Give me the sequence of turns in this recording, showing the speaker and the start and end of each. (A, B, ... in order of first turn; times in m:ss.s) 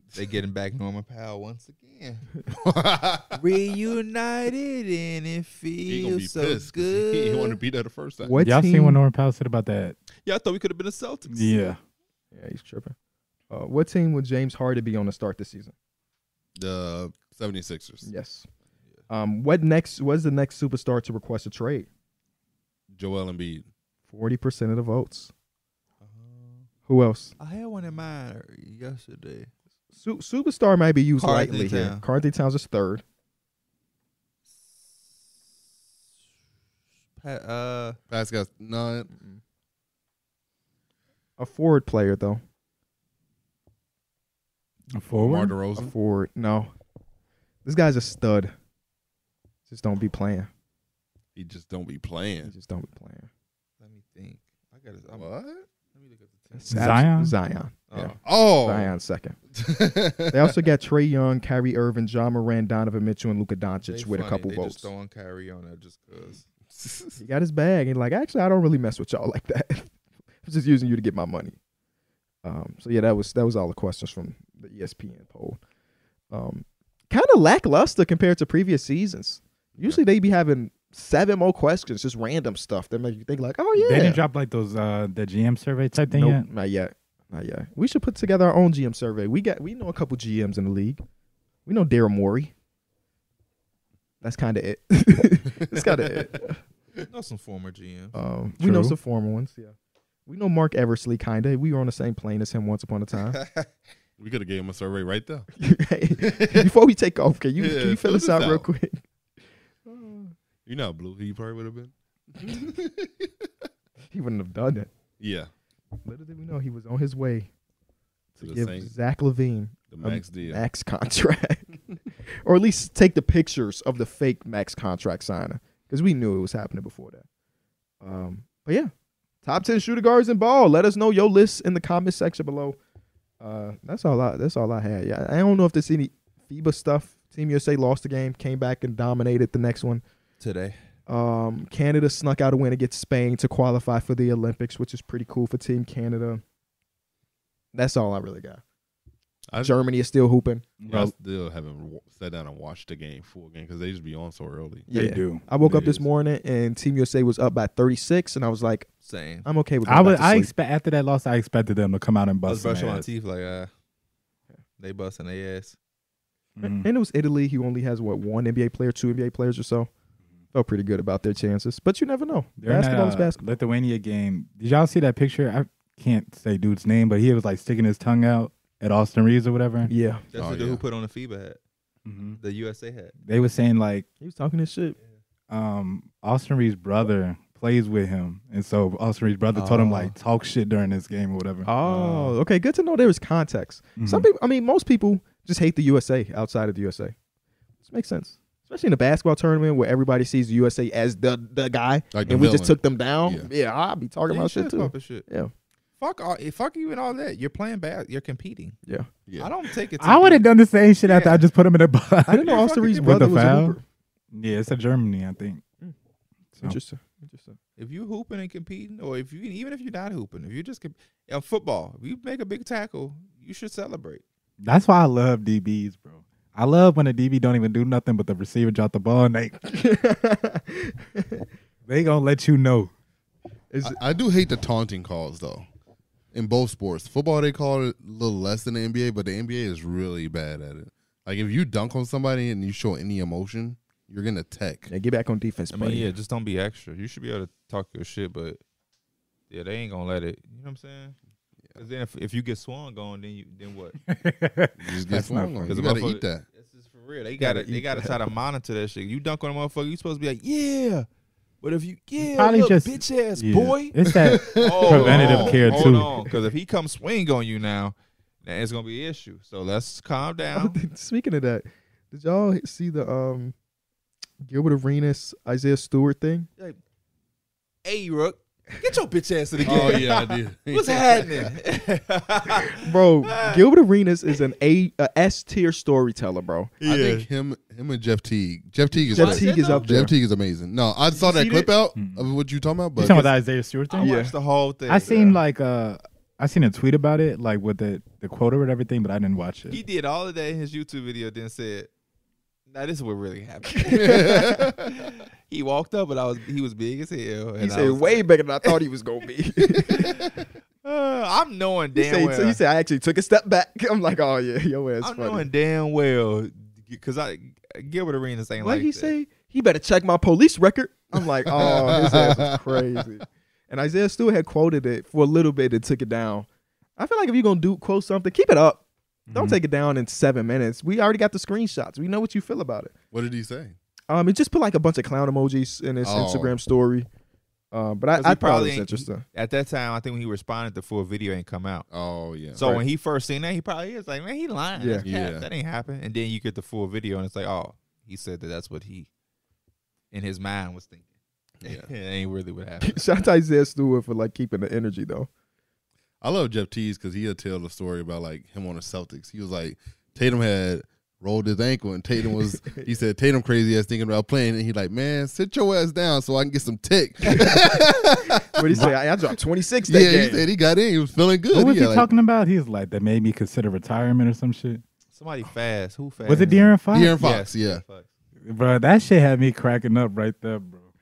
0:00.1-0:02.3 A
0:02.5-0:03.4 B
0:03.3-0:07.6 A
0:05.9-0:08.4 B
0:08.2-0:09.0 C
0:08.4-0:10.0 D
0:10.2-0:11.7 A
0:11.3-0:11.8 D
0:12.3-0:13.0 C
0:13.5-0:15.7 C
0:16.6-0:18.1 B
0:18.0-0:18.5 C
0:19.1-0:21.9 C
0:22.9-0:23.7 B
0:24.1-0:25.3 C
0:26.0-0:26.7 A
0:26.9-0:27.4 C
0:27.4-0:29.5 A
0:30.0-0:33.0 C
0:31.2-0:32.0 A
0:37.2-0:38.0 A
0:38.1-0:39.1 B
0:39.1-0:39.4 C
0:41.4-0:42.4 C
0:44.9-0:45.5 D
0:45.2-0:45.9 B
0:45.8-0:46.7 C
0:47.6-0:48.5 C
0:49.7-0:50.5 C
0:51.4-0:52.5 B
0:52.4-0:53.3 C
0:53.8-0:55.3 A
0:55.2-0:55.6 B
0:55.9-0:56.9 A
0:56.6-0:59.4 C
0:56.7-0:57.4 D
0:57.9-0:58.2 A
0:58.2-0:58.9 B
0:59.5-1:00.5 B
1:00.3-1:04.9 C
1:03.9-1:06.5 A
1:06.7-1:07.2 B
1:07.2-1:09.9 C
1:10.4-1:11.6 C
1:12.4-1:15.6 C
1:16.3-1:24.2 C
1:23.8-1:26.4 D
1:26.1-1:31.0 C
1:31.7-1:32.5 C
1:34.2-1:36.6 C
1:35.8-1:36.2 B
1:37.1-1:38.2 A
1:38.1-1:39.7 C
1:38.6-1:39.0 D
1:40.3-1:43.4 C
1:43.3-1:43.7 A
1:44.2-1:45.5 B
1:45.6-1:49.0 C
1:46.2-1:46.7 B
1:47.6-1:48.7 B
1:49.9-1:50.3 C
1:50.7-1:53.5 B
1:54.1-1:54.9 C
1:55.2-1:55.5 B
1:56.0-1:57.5 C
1:58.4-2:01.8 C
1:58.4-1:58.9 B
1:59.9-2:00.6 B
2:02.4-2:07.2 C
2:08.0-2:08.9 C
2:09.4-2:12.8 C
2:13.4-2:20.0 C
2:20.4-2:20.8 A
2:21.1-2:26.4 C
2:27.7-2:28.6 C
2:29.6-2:30.7 C
2:30.8-2:31.1 D
2:30.9-2:34.9 B
2:34.9-2:38.9 C
2:34.9-2:35.4 D
2:35.6-2:36.1 B
2:39.0-2:39.5 A
2:39.4-2:40.5 C
2:39.9-2:43.1 D
2:42.5-2:43.7 A
2:44.8-2:45.8 A
2:46.6-2:46.9 D
2:46.6-2:49.9 C
2:50.5-2:53.4 C
2:52.6-2:59.9 D
2:59.9-3:00.2 C
3:00.3-3:01.6 A
3:00.4-3:00.8 B
3:02.1-3:02.4 D
3:02.4-3:03.2 A
3:03.2-3:04.1 D
3:04.2-3:05.0 C
3:05.5-3:12.4 D
3:09.5-3:10.1 A
3:11.6-3:17.2 C
3:14.0-3:14.3 D
3:17.8-3:25.5 C
3:22.1-3:23.5 B
3:24.3-3:25.2 A
3:26.0-3:28.8 A
3:29.3-3:29.5 B
3:29.4-3:30.4 A
3:30.0-3:33.8 D
3:31.0-3:31.4 A
3:32.3-3:33.8 C
3:32.5-3:33.1 A
3:34.3-3:35.6 D
3:36.6-3:37.6 C
3:37.8-3:44.2 A
3:44.6-3:49.6 D
3:49.6-3:51.5 C
3:51.9-3:52.9 D
3:53.7-3:54.0 C
3:53.8-3:55.7 B
3:56.3-4:04.9 B
4:04.9-4:06.1 C
4:05.7-4:08.6 A
4:09.5-4:11.2 A
4:11.8-4:14.0 A
4:14.1-4:15.8 D
4:14.8-4:16.4 B
4:15.7-4:21.1 A
4:17.4-4:18.2 C
4:21.6-4:24.0 A
4:22.2-4:26.1 D
4:24.1-4:25.8 B
4:24.6-4:30.8 A
4:24.9-4:26.3 C
4:30.6-4:33.5 C
4:34.4-4:36.5 C
4:37.8-4:43.6 A
4:39.6-4:41.5 B
4:39.7-4:40.1 C
4:42.7-4:46.7 C
4:46.8-4:47.3 A
4:46.8-4:53.2 B
4:49.1-4:49.9 A
4:49.1-4:50.1 C
4:51.2-4:51.7 A
4:52.0-4:52.3 D
4:53.0-4:54.1 D
4:53.0-4:53.3 A
4:53.9-4:55.4 A
4:54.0-4:54.3 C
4:54.9-4:59.8 D
4:59.7-5:01.9 A
5:02.7-5:08.8 A
5:03.8-5:04.7 C
5:03.9-5:04.9 B
5:07.6-5:10.2 C
5:09.9-5:12.6 A
5:12.0-5:15.5 C
5:15.0-5:19.1 A
5:18.6-5:26.5 C
5:21.5-5:23.0 B
5:27.0-5:32.9 C
5:29.3-5:29.6 D
5:33.1-5:33.8 B
5:34.1-5:37.1 C
5:36.0-5:36.6 B
5:37.7-5:39.2 C
5:38.2-5:41.9 A
5:41.9-5:42.8 B
5:42.5-5:49.1 A
5:44.8-5:45.1 C
5:45.0-5:45.5 B
5:50.1-5:51.1 A
5:51.6-5:51.9 B
5:51.6-5:53.0 A
5:52.8-5:55.3 C
5:56.2-6:08.9 B
6:07.2-6:10.5 C
6:09.9-6:12.1 B
6:11.5-6:14.8 D
6:15.1-6:18.1 A
6:16.3-6:17.2 D
6:16.9-6:17.8 B
6:18.5-6:20.9 D